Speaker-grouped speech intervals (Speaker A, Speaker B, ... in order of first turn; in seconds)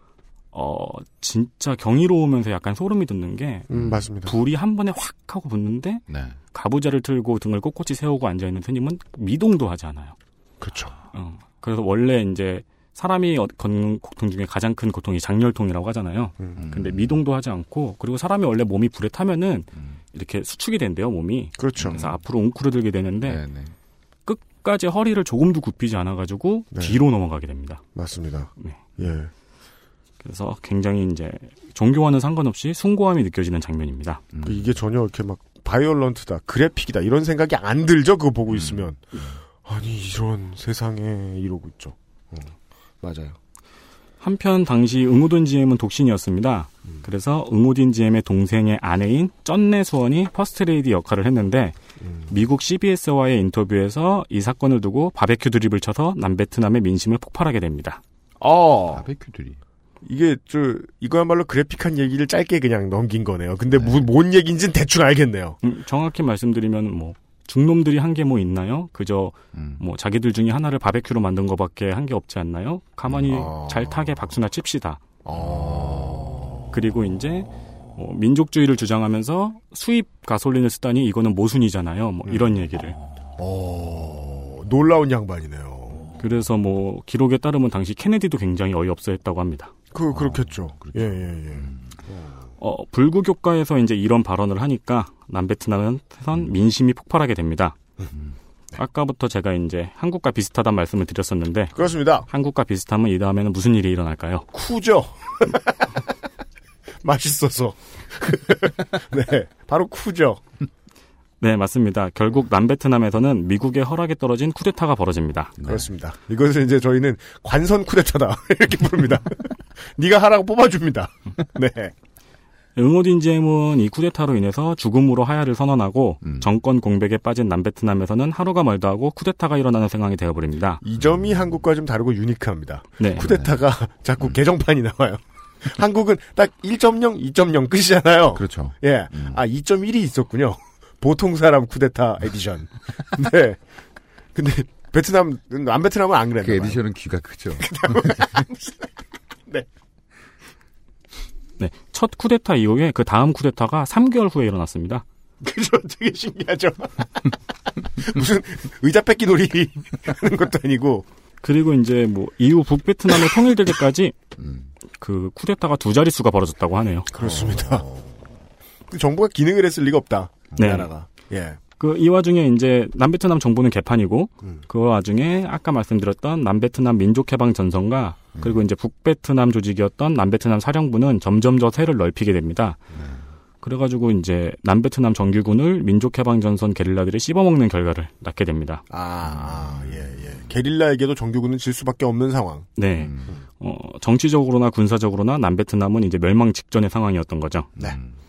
Speaker A: 0.5-3.7, 4.2-10.2, 11.1-23.4, 24.3-27.8, 28.6-28.9, 30.2-34.3, 44.2-51.8, 52.3-58.0, 65.6-75.0, 76.7-83.0, 86.2-89.7, 92.6-97.8, 98.8-101.8, 102.3-104.5, 111.4-115.5, 122.8-130.8, 151.6-155.1, 161.4-164.2, 165.0-167.1, 170.6-170.9, 171.8-182.8, 183.6-188.8, 192.8-197.7
Speaker B: 3.7-4.4, 10.6-10.9, 21.6-22.0, 26.7-27.0, 27.9-29.3, 34.4-39.0, 39.6-43.4, 52.0-52.4, 58.4-59.0, 60.0-65.6, 73.2-74.1, 75.2-76.2, 82.3-82.5, 83.4-86.1, 89.9-92.3, 101.7-102.3, 104.5-105.8, 107.0-110.4, 115.6-121.9, 130.8-143.6, 144.3-146.8, 147.6-148.9, 155.4-157.3, 158.0-161.1, 167.1-167.9, 168.9-171.6, 188.9-192.7
Speaker C: 3.7-4.0, 6.1-6.4, 16.6-17.2, 21.8-22.2, 23.2-23.7, 34.3-34.7, 38.5-39.4, 58.9-59.6, 63.7-64.1, 69.5-69.8, 75.4-76.6, 90.1-92.0, 115.6-115.9, 126.2-126.5, 133.2-133.6, 138.3-139.4, 146.4-148.4, 164.4-164.7, 167.2-168.2, 182.9-183.2, 189.2-190.3, 192.9-193.3, 197.8-198.1